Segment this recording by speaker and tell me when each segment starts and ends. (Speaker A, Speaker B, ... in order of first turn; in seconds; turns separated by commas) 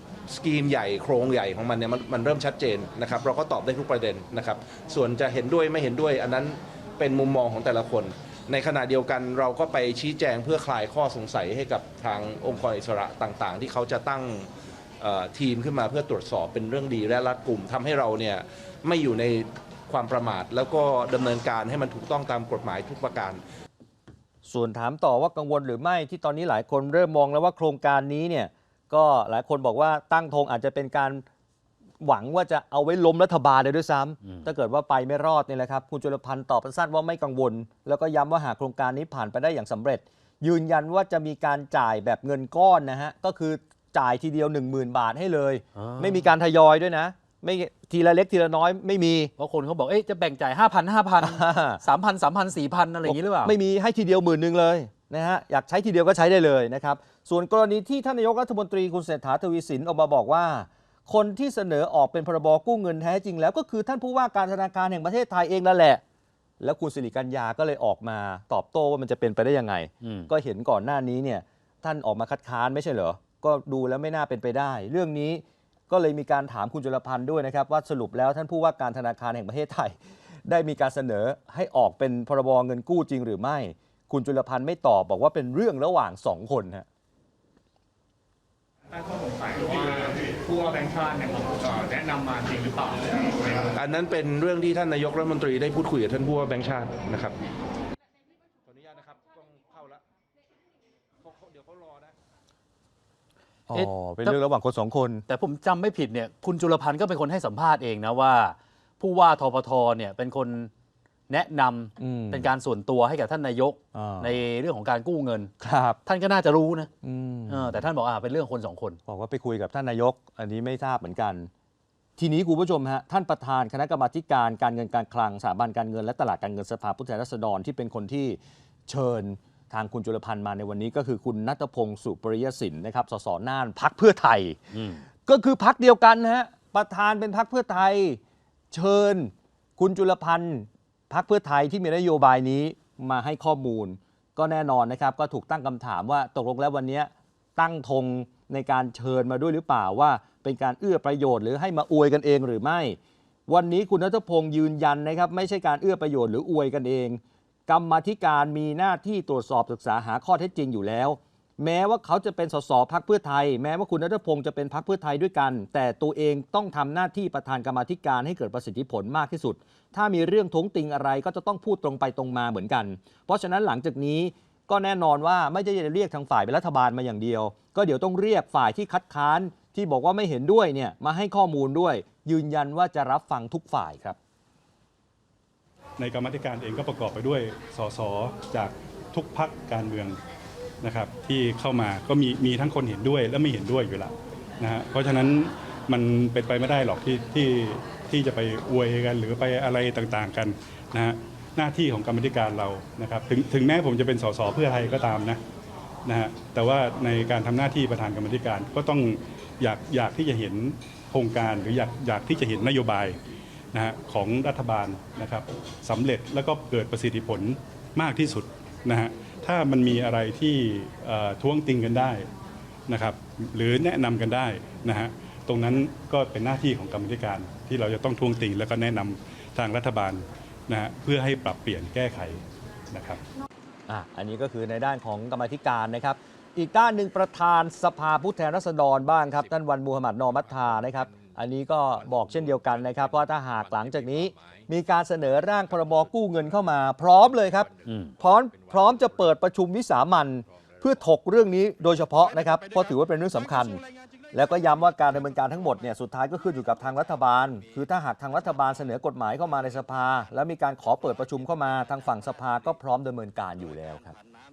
Speaker A: 0.3-14.5, Speaker A: 15.0-23.4, Speaker B: 24.4-31.2, Speaker B: 32.0-49.3, Speaker C: 45.8-46.3, Speaker C: 49.4-53.5, Speaker B: 51.2-51.8, Speaker B: 53.0-66.0, Speaker B: 66.6-86.9, Speaker C: 70.0-70.3, Speaker D: 89.0-93.6, Speaker A: 93.7-97.4, Speaker A: 98.7-100.0, Speaker A: 101.2-102.1, Speaker B: 103.7-105.2, Speaker C: 103.7-104.4, Speaker C: 105.3-110.7, Speaker C: 111.3-115.5, Speaker B: 112.0-112.5, Speaker B: 114.0-114.4, Speaker B: 115.6-116.0, Speaker C: 116.0-116.9, Speaker B: 117.0-117.8, Speaker C: 117.5-119.0, Speaker B: 119.1-121.5, Speaker B: 122.2-138.2, Speaker C: 134.7-135.0, Speaker B: 138.7-184.2, Speaker E: 186.0-190.2, Speaker E: 190.8-205.4, Speaker E: 206.1-213.2, Speaker E: 213.7-222.3, Speaker E: 222.9-233.2, Speaker B: 233.9-253.8, Speaker C: 247.8-248.1, Speaker B: 254.3-264.2